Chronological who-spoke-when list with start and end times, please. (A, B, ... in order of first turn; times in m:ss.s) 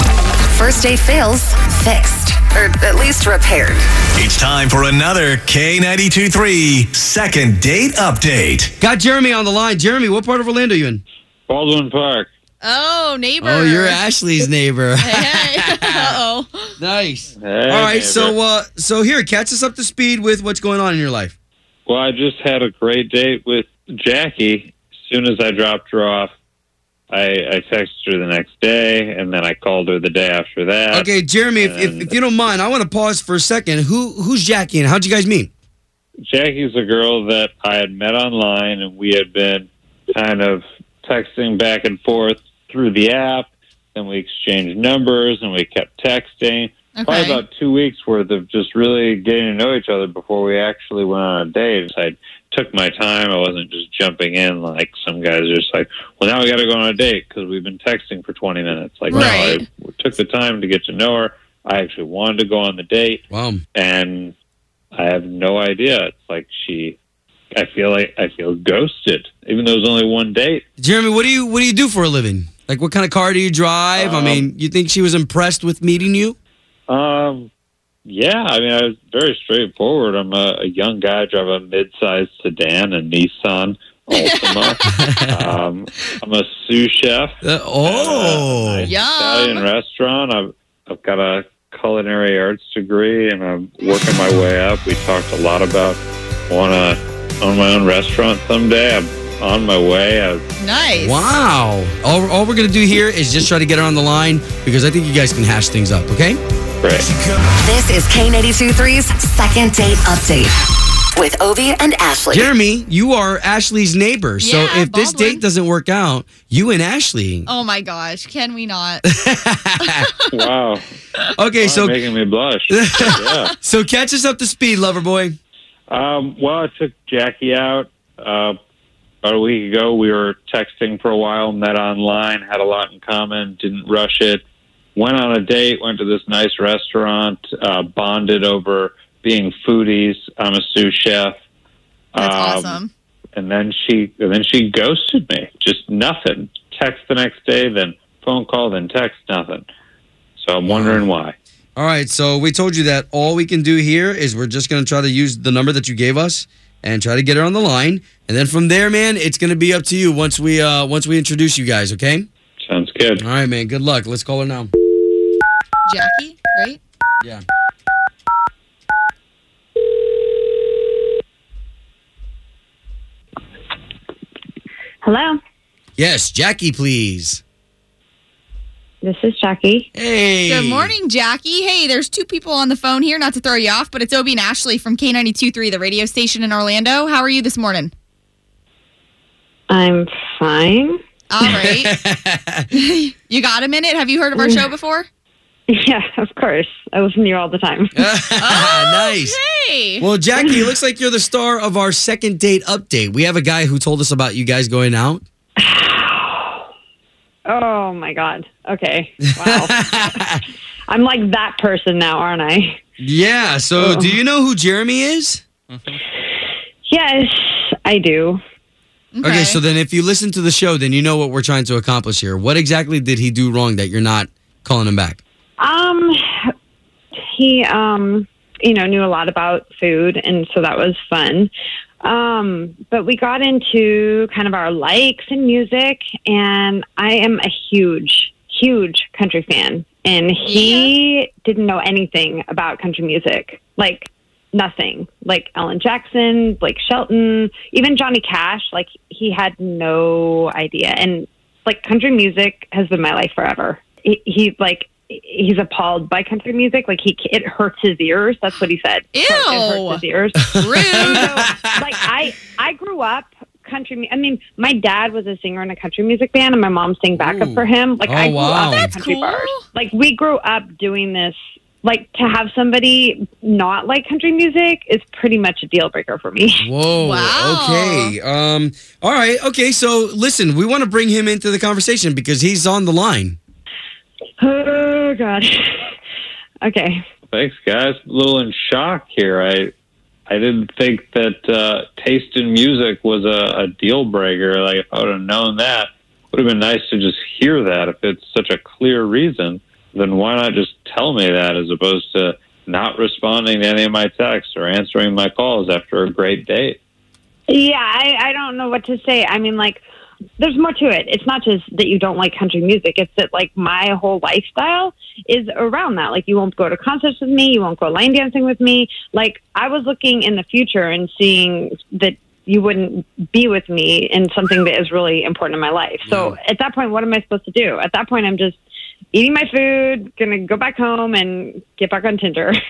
0:00.5-0:03.8 A
0:04.2-0:08.7 B
0:08.8-0:11.0 C
0:11.5-0:12.3 D
0:12.6-0:14.4 E
0:13.4-0:16.2 C
0:15.0-0:16.8 E
0:16.8-0:21.3 C
0:17.4-0:18.4 D
0:21.9-0:26.3 D
0:27.1-0:32.1 D
0:30.9-0:35.5 C
0:36.3-1:03.2 D
0:46.9-0:47.4 E
0:59.1-0:59.6 E
1:03.3-1:03.6 C
1:03.7-1:04.3 D
1:04.9-1:07.0 D
1:07.5-1:10.6 D
1:10.8-1:16.3 C
1:14.0-1:14.5 D
1:16.9-1:17.5 D
1:18.0-1:40.4 D
1:24.1-1:24.8 E
1:24.8-1:25.4 C
1:27.4-1:28.9 C
1:28.9-1:29.6 E
1:40.6-1:41.3 E
1:41.0-1:46.4 C
1:47.5-1:50.5 A
1:51.1-1:52.6 A
1:52.3-1:57.5 C
1:54.4-1:55.4 E
1:57.4-1:59.0 E
1:59.0-2:00.1 C
2:00.0-2:00.3 E
2:00.3-2:00.8 D
2:01.4-2:02.0 C
2:01.6-2:03.5 D
2:02.7-2:05.4 C
2:03.1-2:03.5 E
2:05.9-2:08.6 D
2:09.2-2:14.4 D
2:14.9-2:21.4 D
2:22.1-2:22.8 D
2:22.2-2:22.9 E
2:23.3-2:29.7 D
2:30.4-2:31.3 D
2:30.6-2:31.1 C
2:31.8-2:42.3 C
2:42.6-2:43.2 D
2:43.2-2:44.7 C
2:45.8-2:46.8 E
2:55.0-2:55.4 F
2:56.0-2:57.4 C
2:59.0-2:59.9 F
3:00.0-3:00.9 C
3:00.4-3:07.9 E
3:09.7-3:11.0 F
3:11.3-3:11.9 E
3:11.8-3:12.7 C
3:12.7-3:15.1 E
3:14.3-3:14.7 F
3:15.7-3:18.0 F
3:18.0-3:19.4 C
3:18.4-3:20.1 E
3:20.0-3:25.2 C
3:20.4-3:20.6 F
3:25.6-3:26.6 F
3:27.4-3:29.9 F
3:29.4-3:30.4 C
3:30.9-3:32.8 F
3:33.0-3:35.4 C
3:33.8-3:34.2 F
3:35.7-3:36.0 D
3:36.8-3:38.4 F
3:39.1-3:39.6 E
3:39.2-3:45.2 C
3:45.6-3:46.5 F
3:47.3-3:51.5 F
3:52.0-4:36.7 F
4:00.4-4:00.9 E
4:19.1-4:20.0 E
4:20.5-4:21.2 E
4:20.9-4:21.7 C
4:27.2-4:28.9 C
4:28.6-4:29.6 E
4:36.6-4:43.4 C
4:37.0-4:38.1 E
4:44.4-4:45.8 F
4:46.6-4:47.0 F
4:47.3-4:49.7 D
4:50.3-5:06.8 D
5:07.5-5:09.8 F
5:10.4-5:28.6 F
5:26.1-5:26.4 C
5:29.1-5:32.6 F